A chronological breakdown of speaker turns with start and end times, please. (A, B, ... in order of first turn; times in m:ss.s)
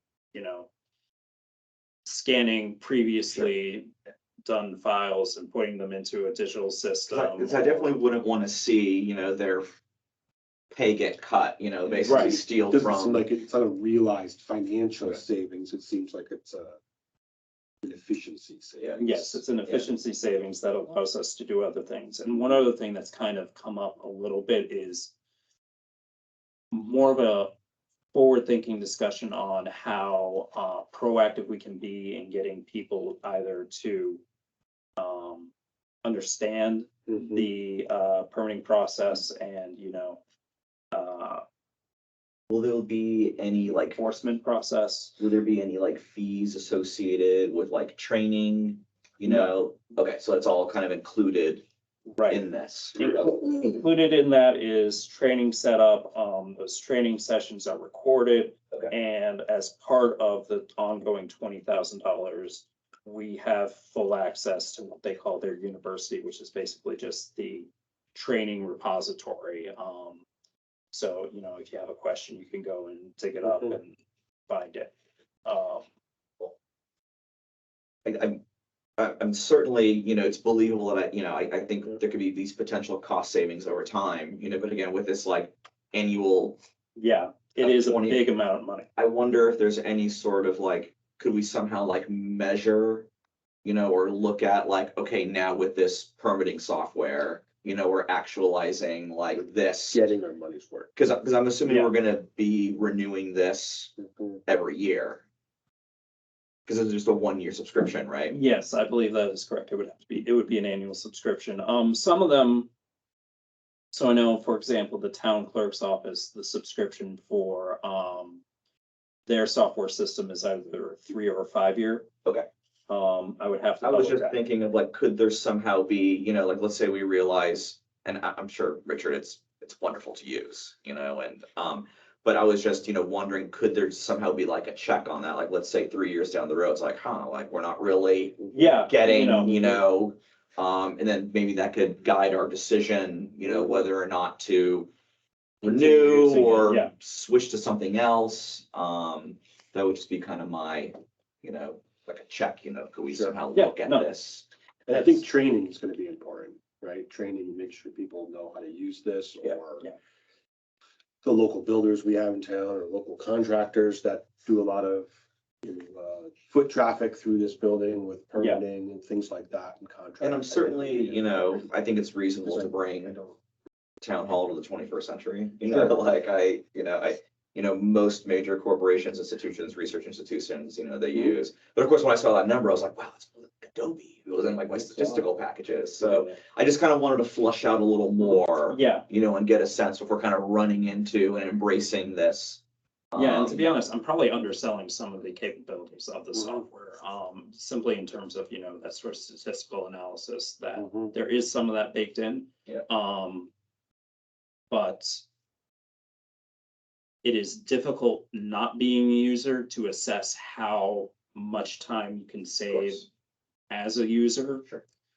0:00.3-0:00.7 A
0:02.0-0:03.9 A
0:04.5-0:07.9 A
0:07.1-0:09.7 B
0:10.7-0:13.2 B
0:11.9-0:16.8 C
0:12.0-0:12.4 A
0:17.8-0:19.4 C
0:18.8-0:19.0 B
0:19.0-0:25.1 A
0:26.7-0:27.5 A
0:28.1-0:34.2 A
0:35.0-0:35.5 A
0:36.0-0:40.2 A
0:37.1-0:37.5 C
0:40.9-0:41.4 A
0:42.5-0:44.0 B
0:44.0-0:45.1 A
0:45.2-0:51.6 B
0:52.1-0:52.4 A
0:52.3-0:53.4 B
0:53.0-1:10.2 A
1:10.9-1:14.0 A
1:14.5-1:14.9 A
1:15.5-1:15.8 A
1:18.0-1:18.4 B
1:19.0-1:26.6 B
1:27.0-1:28.9 A
1:27.6-1:28.3 B
1:29.0-1:33.1 B
1:33.6-1:40.0 B
1:39.9-1:40.9 C
1:41.0-1:43.9 B
1:41.6-1:41.9 A
1:44.0-1:44.4 C
1:44.5-1:45.2 B
1:46.7-1:48.4 B
1:48.3-1:52.7 A
1:53.9-1:58.4 A
1:59.3-2:02.1 A
2:02.9-2:04.4 A
2:03.8-2:24.9 B
2:18.5-2:19.8 A
2:25.6-2:34.4 B
2:25.6-2:26.9 A
2:33.1-2:33.4 C
2:33.5-2:34.1 A
2:34.9-2:39.9 C
2:34.9-2:35.2 A
2:41.2-2:45.1 C
2:45.6-2:51.6 C
2:48.4-2:48.6 A
2:50.2-2:53.2 B
2:52.4-2:53.4 C
2:54.0-3:13.7 B
3:08.7-3:09.0 A
3:13.2-3:23.5 A
3:16.3-3:16.6 C
3:20.8-3:21.1 C
3:24.7-3:25.2 A
3:27.2-3:33.1 A
3:32.7-3:33.0 B
3:33.7-3:34.7 A